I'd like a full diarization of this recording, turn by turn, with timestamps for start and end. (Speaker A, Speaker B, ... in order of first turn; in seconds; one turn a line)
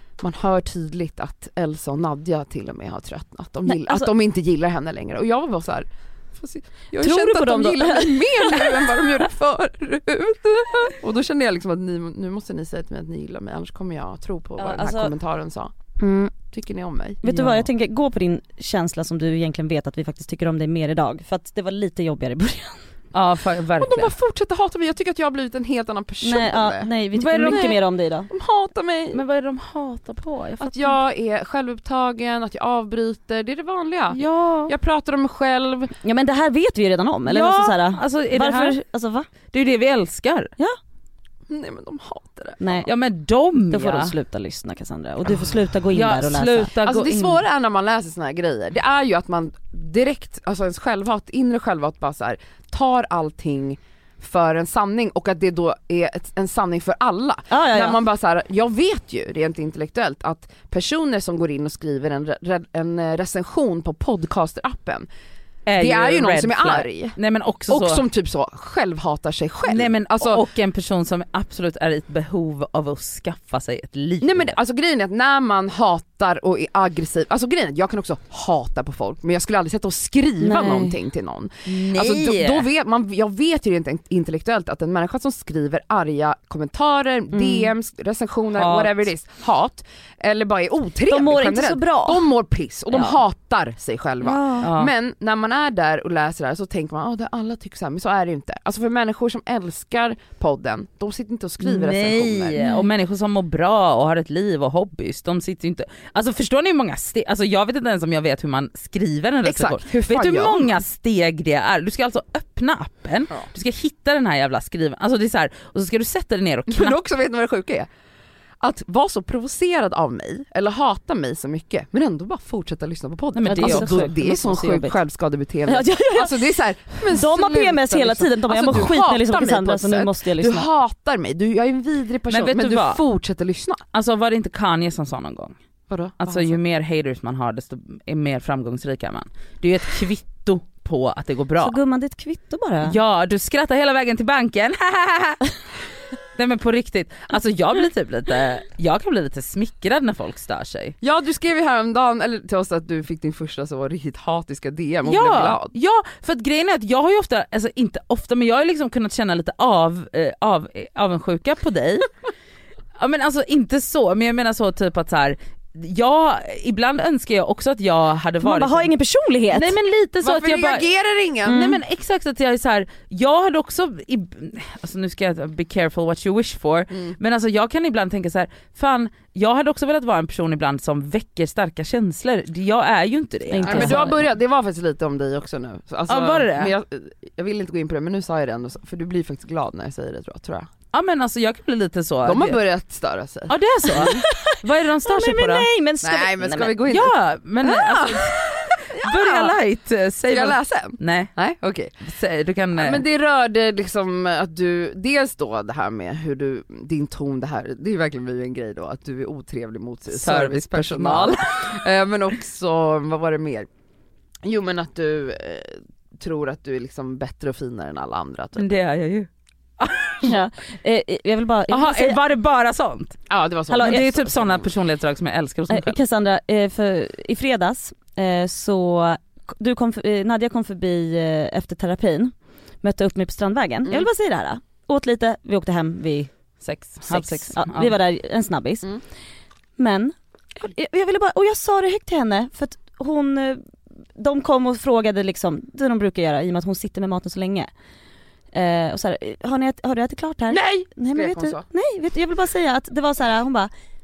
Speaker A: 0.2-15.7
Speaker B: 3.7-4.1
Speaker B: 7.0-9.3
Speaker C: 14.6-15.1
Speaker B: 16.0-16.4
Speaker A: 16.4-17.3
Speaker B: 17.2-22.9
Speaker C: 17.3-17.6
Speaker C: 23.1-24.1
Speaker A: 23.8-27.7
Speaker B: 26.2-28.3
Speaker C: 27.1-27.8
Speaker A: 28.3-29.2
Speaker C: 29.1-31.0
Speaker A: 30.6-35.9
Speaker C: 34.1-34.7
Speaker B: 36.0-39.3
Speaker C: 37.3-38.8
Speaker C: 39.5-40.5
Speaker A: 41.5-42.9
Speaker B: 42.6-42.9
Speaker C: 42.9-44.1
Speaker B: 43.7-46.7
Speaker C: 45.9-47.4
Speaker A: 46.8-65.1
Speaker B: 57.5-58.0
Speaker C: 65.7-68.0
Speaker A: 65.8-67.2
Speaker A: 67.7-70.4
Speaker C: 69.7-74.6
Speaker A: 74.2-102.6
Speaker B: 80.4-81.0
Speaker C: 81.7-82.7
Speaker B: 87.3-87.7
Speaker C: 88.5-89.1
Speaker B: 91.1-92.2
Speaker B: 94.2-94.7
Speaker C: 94.6-94.9
Speaker C: 101.6-117.0
Speaker B: 102.6-102.9
Speaker A: 109.5-110.7
Speaker A: 116.7-117.9
Speaker A: 118.6-133.8
Speaker C: 123.3-124.2
Speaker B: 123.5-125.0
Speaker B: 125.7-130.7
Speaker C: 132.3-133.0
Speaker C: 133.9-135.6
Speaker A: 135.9-136.6
Speaker C: 136.2-141.8
Speaker B: 141.6-143.0
Speaker C: 142.8-145.4
Speaker C: 146.3-151.0
Speaker A: 151.0-155.7
Speaker C: 155.1-162.1
Speaker C: 163.0-168.9
Speaker B: 168.4-169.7
Speaker C: 169.5-170.9
Speaker A: 170.2-171.6
Speaker C: 171.4-184.1
Speaker B: 171.5-171.8
Speaker A: 176.9-177.2
Speaker B: 183.5-184.3
Speaker A: 183.6-190.7
Speaker C: 186.1-186.7
Speaker C: 190.9-192.6
Speaker A: 192.2-194.1
Speaker C: 193.5-195.7
Speaker B: 194.0-196.8
Speaker A: 196.0-197.2
Speaker C: 196.9-201.3
Speaker A: 197.7-199.5
Speaker A: 200.3-202.0
Speaker C: 202.0-203.0
Speaker A: 202.8-213.7
Speaker C: 210.1-211.8
Speaker A: 214.4-218.8
Speaker C: 218.6-219.3
Speaker C: 219.8-220.3
Speaker B: 220.2-222.2
Speaker C: 221.7-226.0
Speaker A: 223.3-224.7
Speaker B: 223.7-224.1
Speaker B: 225.7-236.3
Speaker C: 236.6-237.9
Speaker B: 237.0-239.0
Speaker B: 239.8-243.6
Speaker B: 244.2-247.7
Speaker B: 248.5-253.7
Speaker A: 250.5-251.7